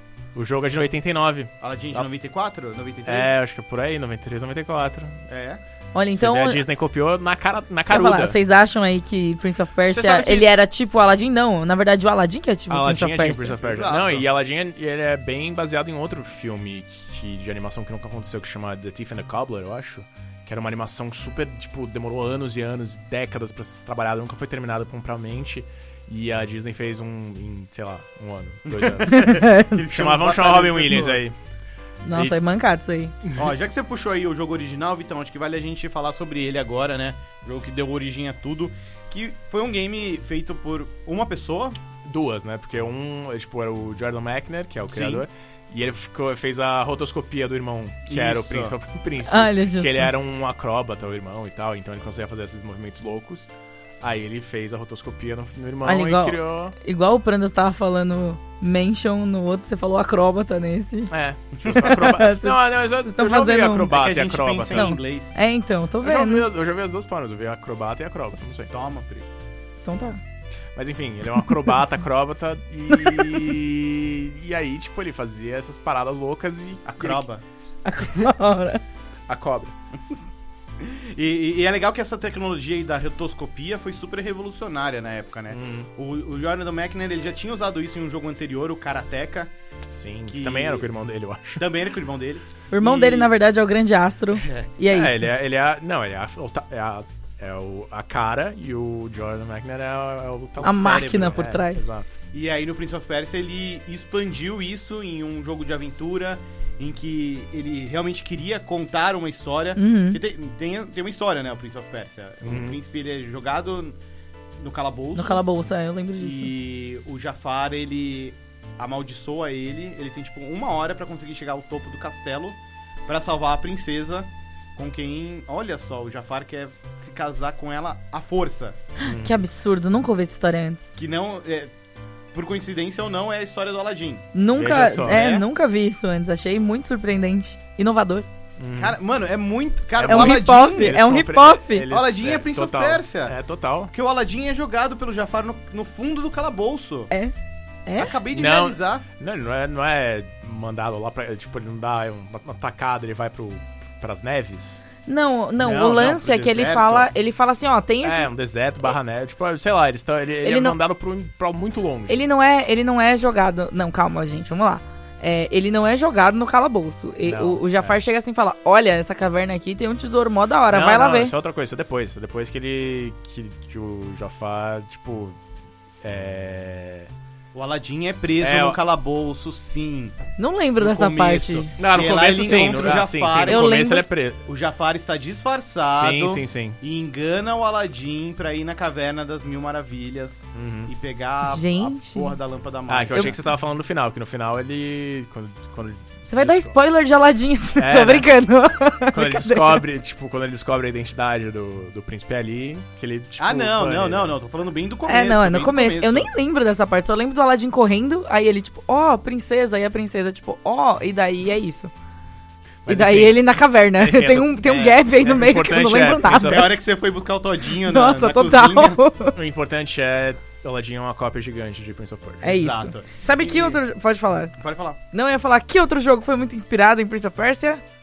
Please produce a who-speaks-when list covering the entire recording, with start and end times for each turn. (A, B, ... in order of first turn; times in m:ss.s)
0:00.3-0:02.0 A
0:01.6-0:03.4 B
0:03.0-0:05.2 A
0:05.3-0:05.6 B
0:05.9-0:06.6 C
0:06.1-0:08.4 A
0:07.8-0:13.6 C
0:09.9-0:10.5 A
0:12.7-0:31.4 A
0:13.6-0:14.3 B
0:28.7-0:31.2 B
0:29.1-0:29.8 C
0:32.0-0:33.1 C
0:32.1-0:32.4 A
0:33.2-0:33.5 A
0:33.3-0:41.8 B
0:42.0-0:53.5 A
0:44.9-0:45.3 B
0:48.1-0:48.8 B
0:49.2-0:50.1 C
0:54.0-0:56.7 A
0:55.8-1:01.1 C
1:01.1-1:04.9 A
1:01.6-1:03.9 C
1:03.9-1:05.4 B
1:04.7-1:06.4 C
1:06.0-1:08.7 A
1:08.7-1:09.3 B
1:09.8-1:10.2 C
1:10.7-1:17.2 A
1:16.8-1:17.4 B
1:17.8-1:18.8 C
1:19.3-1:19.7 A
1:20.8-1:29.5 B
1:25.5-1:25.9 A
1:29.9-1:31.7 A
1:30.3-1:30.9 B
1:31.6-1:33.3 B
1:32.7-1:35.3 C
1:34.3-1:34.7 B
1:34.9-1:42.1 A
1:40.6-1:41.8 C
1:40.6-1:41.4 B
1:42.3-1:54.0 B
1:49.8-1:50.2 C
1:52.4-1:52.8 A
1:54.6-1:55.4 B
1:55.1-1:56.5 C
1:56.2-2:08.9 B
2:09.0-2:10.9 C
2:09.0-2:09.4 A
2:10.9-2:11.7 B
2:12.3-2:14.3 B
2:14.3-2:18.3 C
2:14.5-2:15.4 A
2:15.1-2:15.4 B
2:18.6-2:19.0 A
2:18.8-2:21.0 B
2:20.0-2:23.9 A
2:20.0-2:21.9 C
2:21.9-2:23.4 B
2:23.9-2:27.1 B
2:27.8-2:28.1 C
2:28.0-2:29.0 B
2:28.3-2:34.8 A
2:35.1-2:38.3 C
2:35.6-2:37.1 B
2:38.0-2:42.2 A
2:40.4-2:40.8 C
2:42.1-2:51.3 C
2:47.2-2:48.0 A
2:50.7-2:55.4 A
2:56.0-2:57.1 A
2:57.5-3:00.2 B
2:58.4-2:58.8 A
3:00.4-3:01.7 C
3:00.8-3:03.7 B
3:01.8-3:04.4 A
3:03.4-3:04.1 C
3:04.4-3:13.4 B
3:05.9-3:06.8 A
3:10.5-3:10.9 A
3:11.4-3:12.3 C
3:12.9-3:16.7 A
3:16.3-3:19.8 C
3:17.8-3:18.3 A
3:19.1-3:24.4 A
3:23.4-3:26.3 B
3:25.1-3:31.9 C
3:32.8-3:36.7 A
3:32.8-3:36.7 C
3:34.6-3:35.1 B
3:36.3-3:39.0 B
3:37.8-3:39.4 C
3:39.3-3:42.5 A
3:42.4-3:44.5 C
3:42.4-3:43.8 B
3:44.6-3:45.0 B
3:45.1-3:47.8 C